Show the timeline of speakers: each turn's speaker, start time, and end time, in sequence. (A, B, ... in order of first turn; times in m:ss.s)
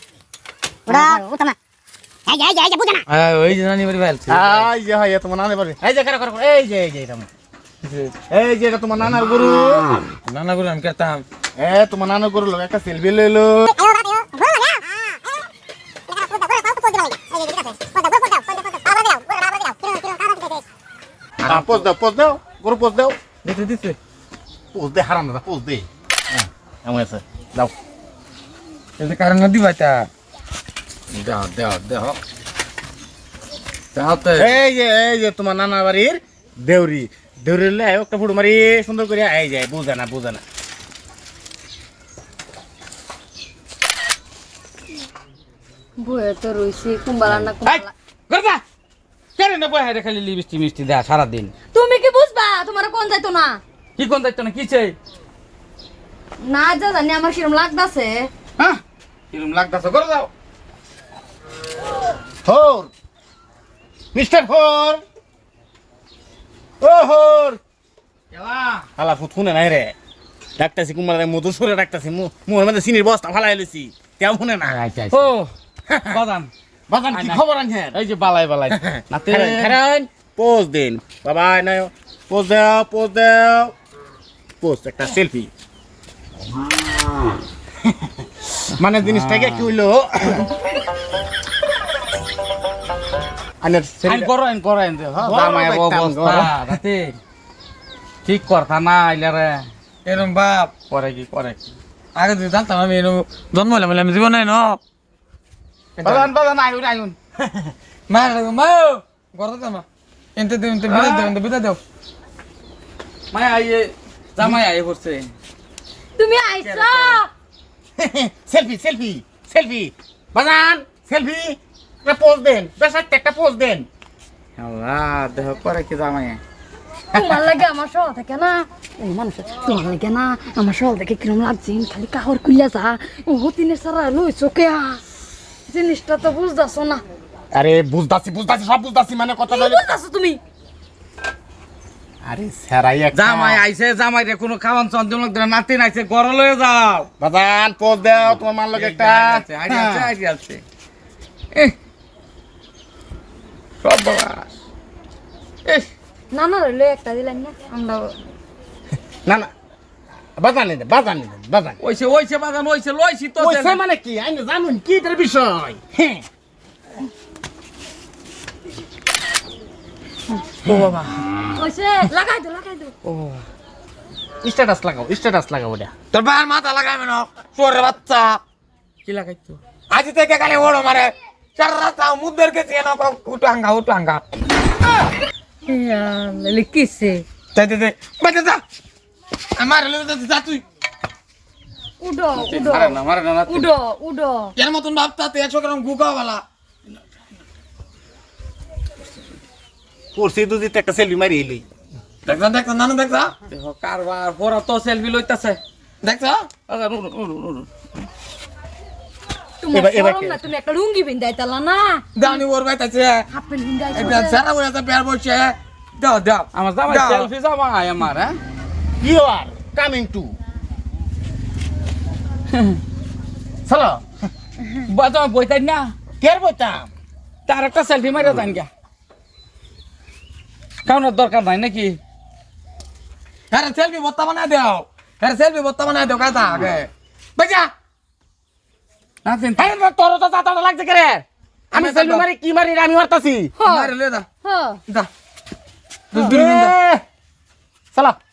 0:00.9-0:01.6 A
0:02.3-0:03.0 A
0:03.1-0:04.7 B
0:04.3-0:07.3 C
0:07.8-0:08.1 B
0:08.3-0:09.9 C
0:10.3-0:11.2 B
0:11.6-0:13.7 C
0:13.7-0:15.4 A
0:16.1-0:20.6 A
0:21.4-0:21.8 B
0:21.4-0:23.2 C
0:23.4-0:24.0 B
0:24.7-0:27.7 C
0:29.0-0:30.1 B
0:31.1-0:32.2 B
0:33.9-0:34.5 B
0:34.4-0:40.4 C
0:46.0-0:47.9 D
0:47.2-0:48.6 E
0:49.4-0:51.5 E
0:51.7-0:53.6 D
0:54.0-0:55.0 E
0:56.4-0:58.3 D
0:59.3-1:00.3 E
1:02.4-1:02.9 C
1:04.1-1:05.0 C
1:06.8-1:07.6 C
1:08.3-1:08.9 E
1:09.0-1:09.9 C
1:10.6-1:14.8 C
1:14.8-1:15.5 E
1:15.9-1:16.2 C
1:16.1-1:16.5 E
1:16.9-1:18.0 C
1:17.1-1:19.8 E
1:18.7-1:23.7 C
1:24.6-1:25.5 C
1:28.6-1:30.5 C
1:29.2-1:29.5 E
1:33.6-1:34.3 C
1:34.0-1:37.2 E
1:35.2-1:36.6 C
1:38.2-1:39.7 E
1:40.0-1:40.7 B
1:40.9-1:41.7 E
1:42.1-1:44.8 B
1:46.0-1:46.3 B
1:46.0-1:47.1 E
1:47.4-1:47.7 C
1:48.1-1:49.8 B
1:50.4-1:51.8 B
1:50.8-1:51.3 E
1:53.3-1:55.3 E
1:56.2-1:57.3 D
1:56.6-1:57.2 E
1:58.0-2:03.9 C
2:04.6-2:06.4 E
2:07.1-2:15.0 D
2:15.7-2:17.0 D
2:17.5-2:20.0 C
2:19.5-2:20.4 D
2:22.2-2:23.6 C
2:23.1-2:27.1 E
2:27.2-2:30.1 C
2:28.7-2:30.6 E
2:33.8-2:34.5 E
2:36.3-2:38.1 D
2:40.4-2:41.8 C
2:41.8-2:43.8 E
2:43.4-2:46.2 C
2:50.6-2:51.1 E
2:51.6-2:52.9 D
2:53.0-2:53.4 E
2:54.4-2:55.9 C
2:56.1-2:58.4 B
2:59.0-2:59.6 E
2:59.9-3:04.2 B
3:05.7-3:07.2 D
3:07.5-3:08.6 B
3:09.6-3:10.6 B
3:12.0-3:14.5 D
3:12.3-3:13.7 E
3:14.6-3:16.4 B
3:20.1-3:21.6 C
3:22.2-3:23.3 B
3:23.5-3:25.6 E
3:26.0-3:26.5 B
3:26.7-3:27.7 E
3:29.6-3:32.4 D
3:29.7-3:30.4 C
3:32.2-3:33.3 B
3:33.3-3:34.4 D
3:33.9-3:37.3 B
3:36.5-3:38.4 E
3:39.0-3:40.3 C
3:42.5-3:42.8 E
3:43.6-3:44.0 C
3:44.8-3:45.9 E
3:46.2-3:46.9 C
3:47.4-3:48.7 E
3:50.8-3:52.0 E
3:53.5-3:57.7 B
3:59.2-3:59.7 E
3:59.6-4:03.5 C
4:01.7-4:02.2 B
4:03.6-4:03.9 D
4:03.6-4:04.2 B
4:04.4-4:04.8 D
4:06.1-4:06.7 B
4:06.1-4:07.0 C